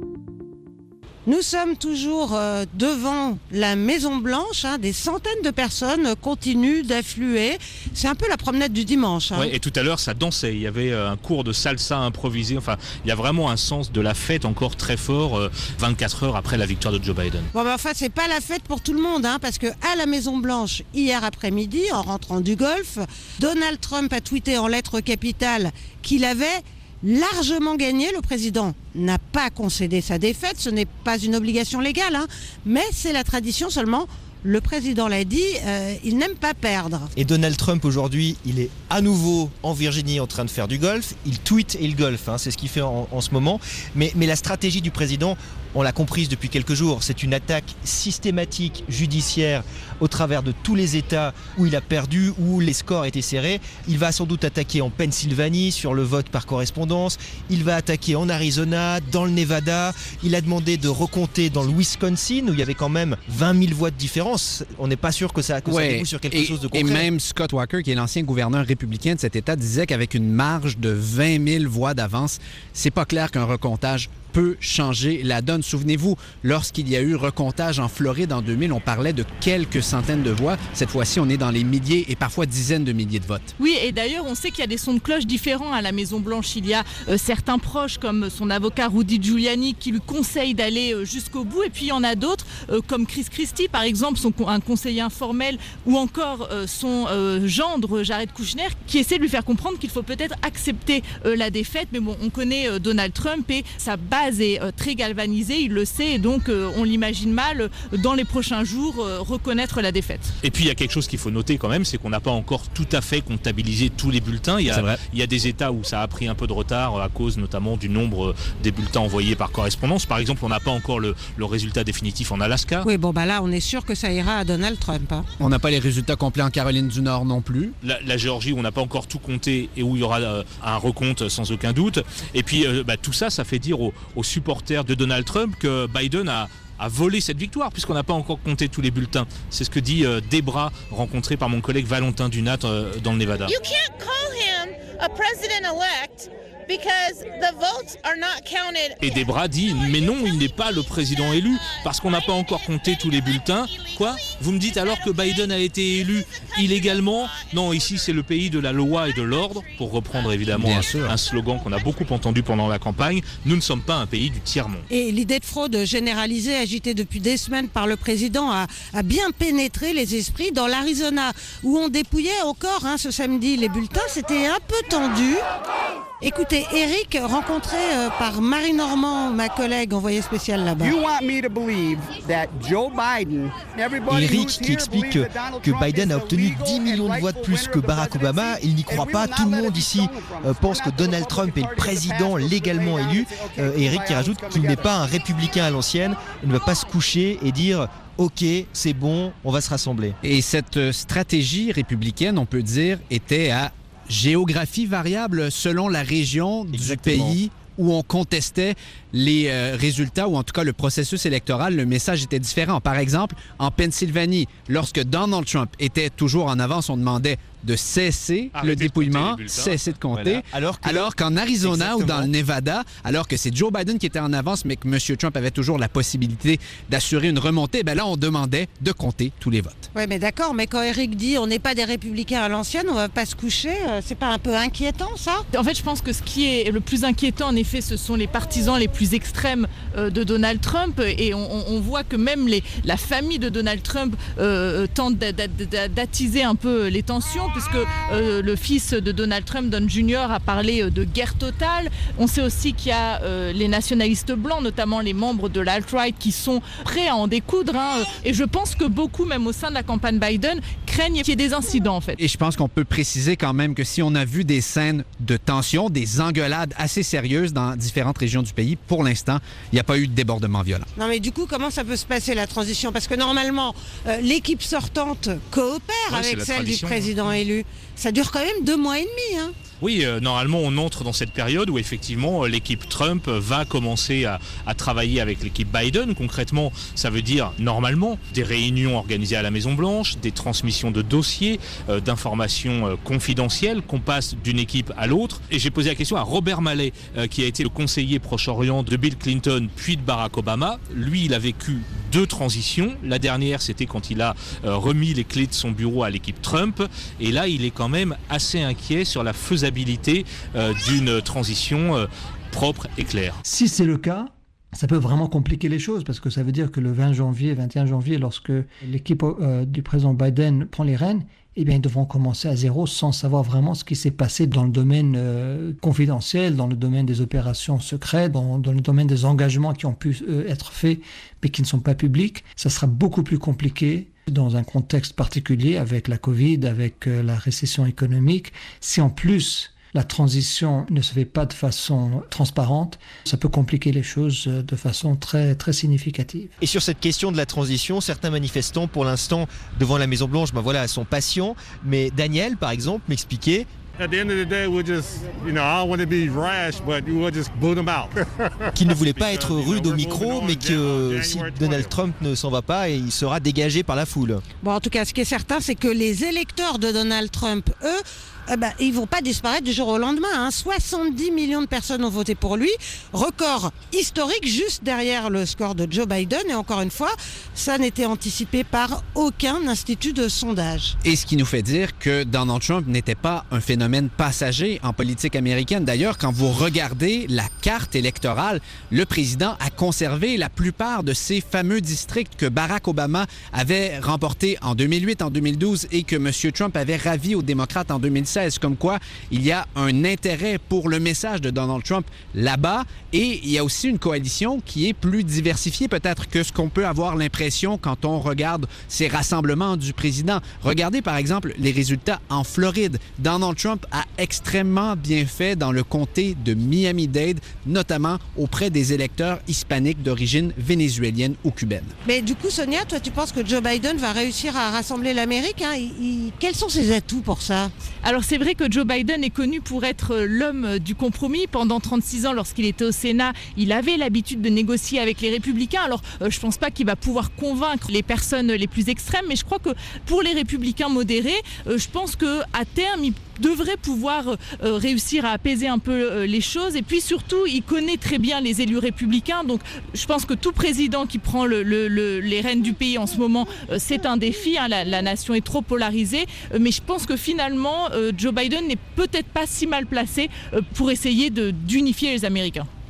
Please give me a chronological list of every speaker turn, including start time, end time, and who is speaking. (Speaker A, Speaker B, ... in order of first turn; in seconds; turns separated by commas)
Speaker A: 1.2-9.5, Speaker B: 9.3-17.5, Speaker A: 17.5-37.1, Speaker C: 37.1-67.1, Speaker D: 65.7-83.5, Speaker E: 83.6-110.3, Speaker B: 110.4-122.8, Speaker D: 114.7-115.0, Speaker A: 122.8-125.2, Speaker D: 125.4-127.7, Speaker B: 127.8-143.5, Speaker F: 143.6-149.0, Speaker B: 149.0-164.9, Speaker D: 160.5-161.1, Speaker A: 164.9-175.4, Speaker A: 176.2-181.0, Speaker G: 180.8-194.9, Speaker C: 184.1-200.2, Speaker D: 200.2-229.8, Speaker C: 206.7-207.4, Speaker B: 218.5-219.8, Speaker C: 220.1-222.3, Speaker A: 229.9-235.4, Speaker E: 235.5-262.2, Speaker D: 262.2-270.9, Speaker A: 270.9-279.5, Speaker B: 276.1-277.4, Speaker B: 279.8-313.4, Speaker H: 313.5-346.5, Speaker C: 346.6-353.7, Speaker I: 354.0-361.9, Speaker C: 358.8-364.4, Speaker A: 364.6-380.9, Speaker D: 381.0-421.9, Speaker A: 422.0-427.7, Speaker E: 428.0-462.7